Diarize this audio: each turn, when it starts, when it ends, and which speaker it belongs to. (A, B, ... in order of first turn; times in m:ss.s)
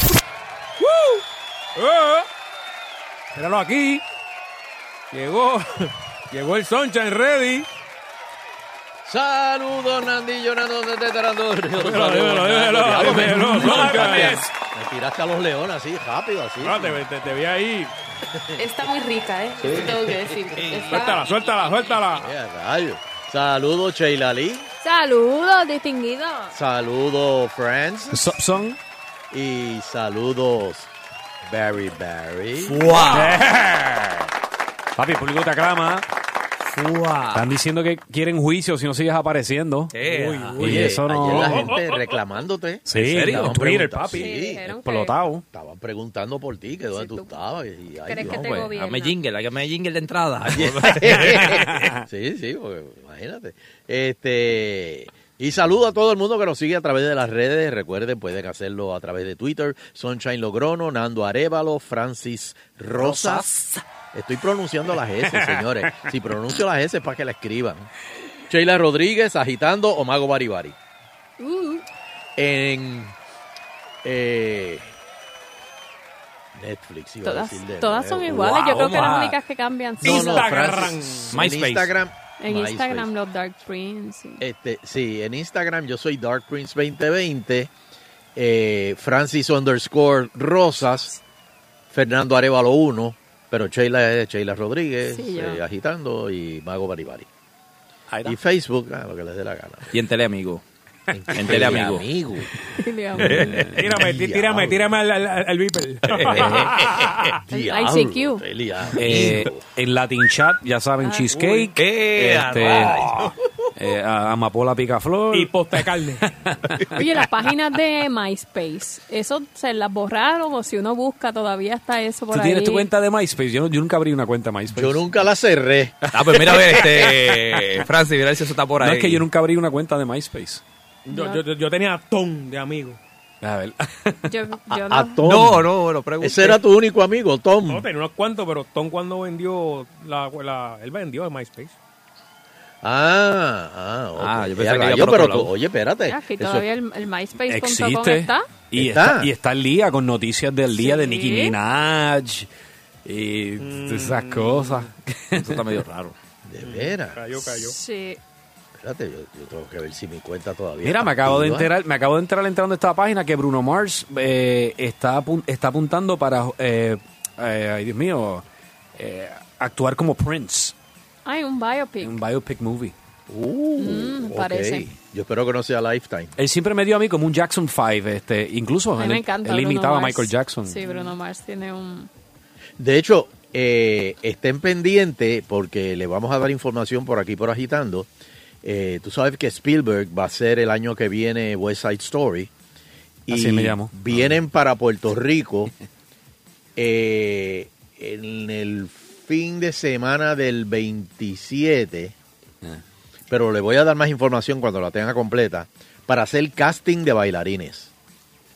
0:00.8-0:01.2 A
0:01.8-0:02.3 A
0:03.3-0:04.0 A
0:05.1-0:07.7 A
0:09.0-0:17.0 B
0:11.8-0:14.5 A
0:16.6-0:17.9 A
0:18.3-0:18.6 B
0:18.6-0:21.2 C
0:19.7-0:20.0 B
0:20.5-0:21.9 D
0:20.9-0:22.3 A
0:22.2-0:24.7 B
0:24.8-0:26.6 E
0:26.5-0:28.3 B
0:28.1-0:28.8 F
0:29.3-0:30.9 B
0:31.4-0:33.2 B
0:32.6-0:33.4 D
0:33.1-0:34.3 F
0:35.0-0:36.0 F
0:36.7-0:37.4 D
0:37.3-0:41.8 F
0:39.9-0:40.9 D
0:40.0-0:42.1 A
0:40.6-0:44.7 B
0:42.8-0:45.4 F
0:42.9-0:43.6 D
0:44.2-0:45.2 E
0:45.5-0:48.7 B
0:46.9-0:47.3 E
0:48.0-0:49.1 E
0:48.2-0:51.6 D
0:50.5-1:03.6 B
0:51.7-0:52.0 F
1:03.0-1:03.8 F
1:04.1-1:07.9 B
1:05.4-1:05.9 F
1:08.5-1:10.8 B
1:11.4-1:11.8 E
1:12.4-1:13.1 B
1:14.0-1:14.9 B
1:16.5-1:18.9 B
1:17.2-1:20.5 E
1:18.5-1:19.4 D
1:20.0-1:21.4 A
1:20.0-1:23.1 B
1:21.3-1:21.9 D
1:22.4-1:24.4 E
1:24.4-1:27.7 B
1:28.3-1:31.1 B
1:31.9-1:37.3 B
1:35.1-1:35.6 E
1:38.1-1:38.4 F
1:38.2-1:39.9 B
1:39.9-1:40.6 D
1:41.1-1:42.5 B
1:41.3-1:41.7 F
1:41.3-1:42.0 D
1:42.8-1:43.5 E
1:43.2-1:43.8 D
1:43.2-1:43.8 F
1:43.8-1:47.2 A
1:43.9-1:44.8 B
1:46.1-1:46.9 D
1:46.5-1:49.6 B
1:47.5-1:48.4 E
1:49.0-1:55.5 F
1:51.0-1:51.5 E
1:51.8-1:53.4 D
1:55.3-1:56.2 A
1:56.2-1:57.0 F
1:57.0-2:02.9 E
2:02.3-2:05.1 F
2:04.7-2:06.0 B
2:06.1-2:07.6 F
2:06.1-2:09.2 D
2:08.8-2:10.6 F
2:11.1-2:13.0 A
2:11.1-2:11.4 E
2:13.4-2:14.2 F
2:14.3-2:15.2 E
2:14.7-2:15.7 B
2:15.2-2:16.6 D
2:16.2-2:17.9 B
2:17.6-2:21.8 A
2:22.8-2:26.6 B
2:24.2-2:25.5 D
2:26.1-2:28.5 E
2:27.5-2:32.5 F
2:28.7-2:29.3 B
2:30.7-2:31.6 E
2:33.0-2:35.6 F
2:33.6-2:34.9 A
2:35.4-2:36.1 D
2:36.4-2:37.2 B
2:36.6-2:37.8 A
2:37.3-2:38.2 E
2:38.8-2:41.7 B
2:40.8-2:48.4 F
2:49.0-2:50.7 F
2:51.2-2:52.2 E
2:52.0-2:52.9 F
2:53.3-2:56.3 B
2:53.8-2:54.8 E
2:56.4-3:00.8 F
2:59.0-3:02.1 E
3:00.8-3:01.1 A
3:02.8-3:08.1 B
3:08.6-3:12.5 B
3:13.3-3:14.4 F
3:13.3-3:15.7 B
3:16.8-3:22.1 B
3:23.3-3:27.9 B